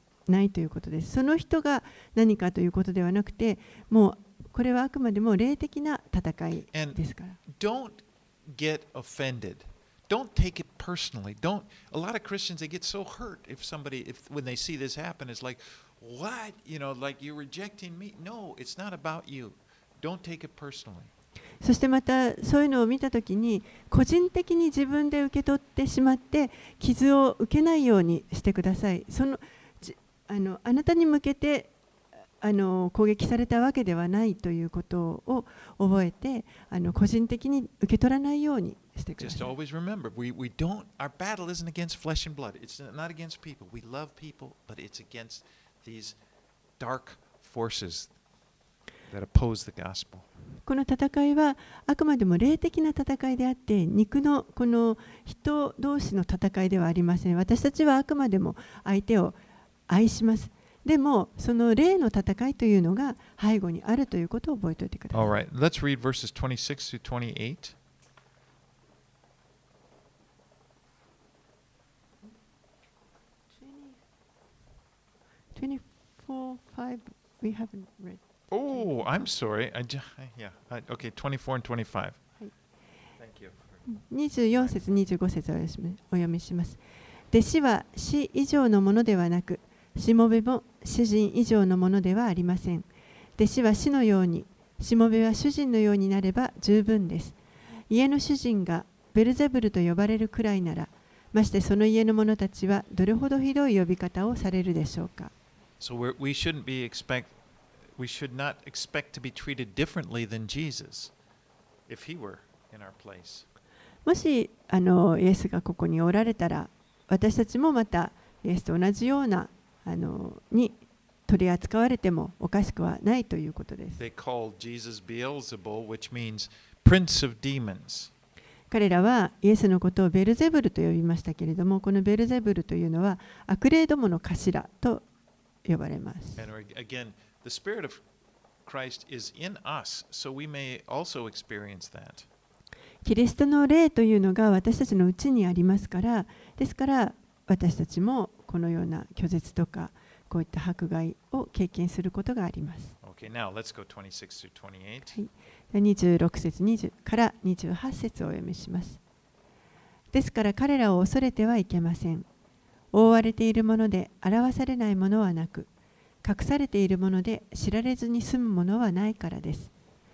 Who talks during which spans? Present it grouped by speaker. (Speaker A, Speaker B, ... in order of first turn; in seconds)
Speaker A: 0.3-7.4, 21.6-31.7, 32.4-39.4, 50.6-59.4, 59.9-65.4, 73.6-74.0, 75.5-78.2, 78.7-79.2, 83.9-86.8, 87.3-97.4, 97.9-105.3, 114.0-124.0, 128.7-135.0, 135.6-136.4, 143.0-152.9, 155.1-159.0, 160.1-162.3, 162.9-165.7, 166.2-169.7
Speaker B: 6.7-21.1, 39.2-46.2, 46.8-48.1, 49.1-50.3, 65.1-67.8, 78.5-82.2, 83.2-83.8, 105.8-107.3, 108.0-111.1, 111.9-113.5, 124.0-128.1, 136.4-138.0, 138.7-142.3, 153.0-155.2